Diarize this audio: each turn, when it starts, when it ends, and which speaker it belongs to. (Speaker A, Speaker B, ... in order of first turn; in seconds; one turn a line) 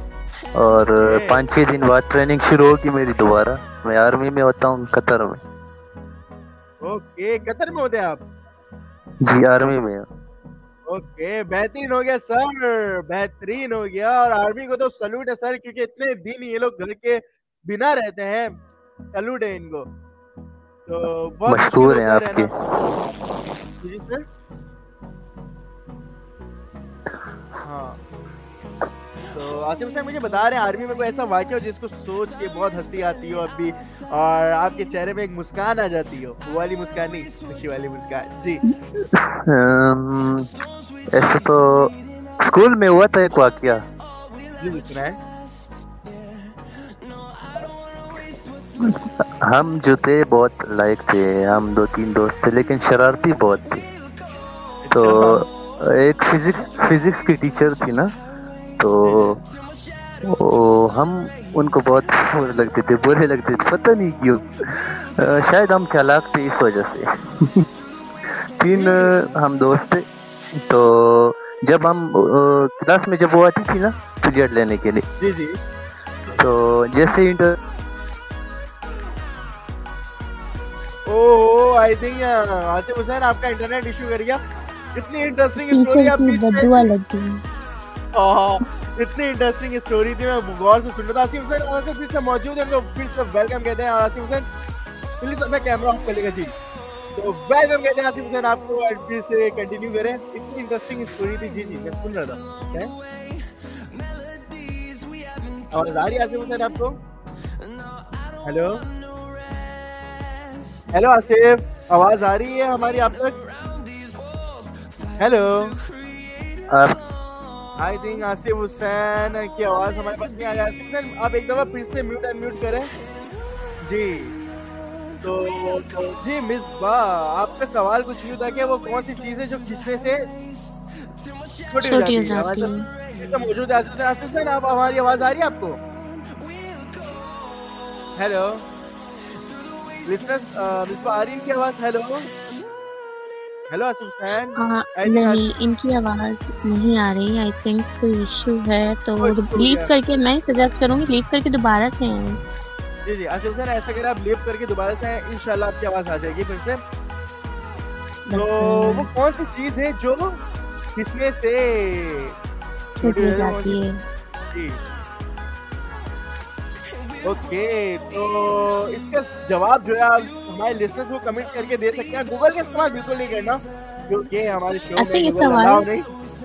Speaker A: 0.6-5.4
Speaker B: 1.0-1.4
Speaker B: 6.8-8.2
Speaker A: 9.2-10.0
Speaker B: 10.9-18.6
Speaker B: 19.1-19.9
Speaker B: 20.9-22.5
Speaker A: 21.5-22.5
Speaker B: 23.8-24.2
Speaker A: 27.1-27.6
Speaker B: 27.6-28.0
Speaker B: 29.3-38.6
Speaker A: 38.7-40.5
Speaker A: 41.1-41.9
Speaker A: 42.5-43.8
Speaker B: 44.6-45.2
Speaker A: 49.5-53.8
Speaker B: 54.8-55.5
Speaker A: 54.9-58.1
Speaker A: 58.8-59.4
Speaker B: 59.0-59.3
Speaker A: 60.3-64.4
Speaker A: 65.2-67.6
Speaker A: 68.6-70.0
Speaker B: 68.7-69.3
Speaker A: 70.6-75.0
Speaker B: 75.2-75.6
Speaker A: 76.4-77.5
Speaker B: 81.1-84.4
Speaker B: 84.9-86.9
Speaker C: 85.6-87.4
Speaker B: 88.1-94.5
Speaker B: 95.2-96.5
Speaker B: 97.1-102.9
Speaker B: 105.7-107.0
Speaker B: 108.4-108.8
Speaker B: 110.9-113.4
Speaker B: 115.2-115.8
Speaker B: 117.8-122.9
Speaker B: 123.8-124.3
Speaker B: 125.2-130.3
Speaker B: 131.7-135.8
Speaker C: 131.8-132.8
Speaker B: 138.2-138.7
Speaker B: 140.1-142.3
Speaker B: 143.7-145.4
Speaker C: 144.6-152.4
Speaker B: 149.2-149.9
Speaker B: 153.0-156.8
Speaker C: 158.2-159.1
Speaker B: 158.3-160.4
Speaker B: 160.9-162.3
Speaker B: 163.0-163.8
Speaker C: 163.0-164.0
Speaker B: 164.5-164.8
Speaker B: 167.2-176.1
Speaker C: 175.0-175.8